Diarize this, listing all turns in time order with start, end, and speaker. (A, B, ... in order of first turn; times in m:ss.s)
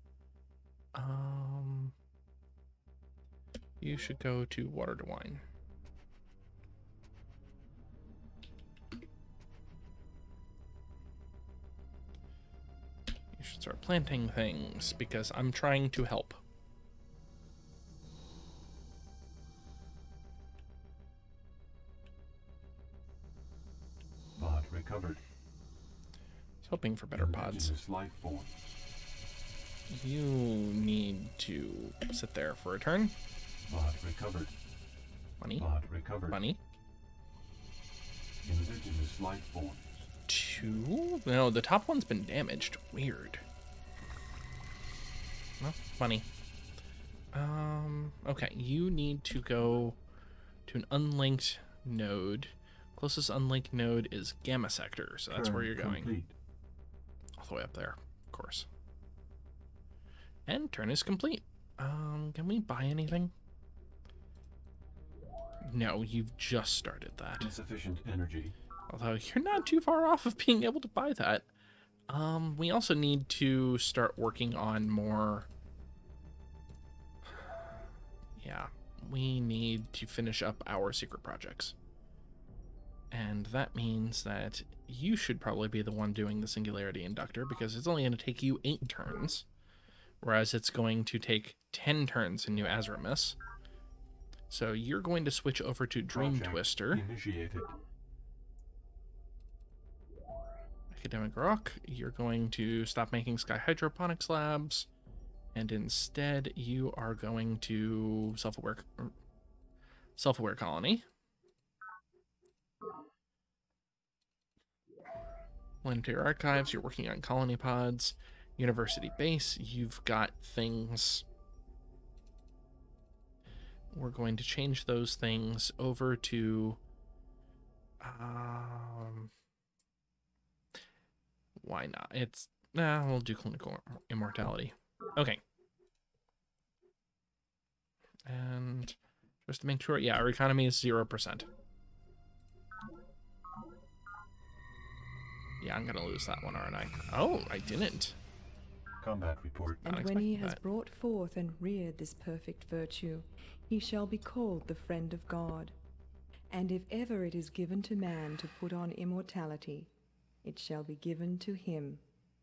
0:00.9-0:01.9 A
0:03.8-0:05.4 A
0:13.3-0:16.4 A
0:24.4-0:25.2 B
0:26.6-0:27.7 A
0:27.1-0:28.8 B
0:29.9-0:33.1 A
0:33.6-0:34.5 B
0:35.4-0:35.7 A
0:35.6-0:36.4 B
0:36.3-0:36.6 A
0:38.4-0:40.1 B
0:40.3-0:43.4 A
0:45.6-0:46.2 A
0:47.3-0:50.0 A
0:50.6-0:56.1 A
0:55.3-0:56.3 B
0:57.4-0:58.7 A
1:00.5-1:03.3 A
1:05.6-1:07.5 A
1:07.4-1:08.5 B
1:08.9-1:11.5 A
1:12.1-1:15.5 A
1:18.4-1:21.7 A
1:23.1-1:29.4 A
1:30.2-1:33.4 A
1:34.5-1:37.0 A
1:36.1-1:37.7 B
1:40.9-1:44.9 A
1:45.5-1:49.1 A
1:50.2-1:51.0 A
1:55.8-2:01.2 A
2:03.9-2:06.8 A
2:08.0-2:09.3 A
2:11.6-2:15.4 A
2:18.2-2:21.4 A
2:25.6-2:28.2 A
2:29.0-2:29.8 B
2:29.8-2:35.7 C
2:29.9-2:30.6 A
2:36.5-2:39.9 C
2:40.4-2:42.0 C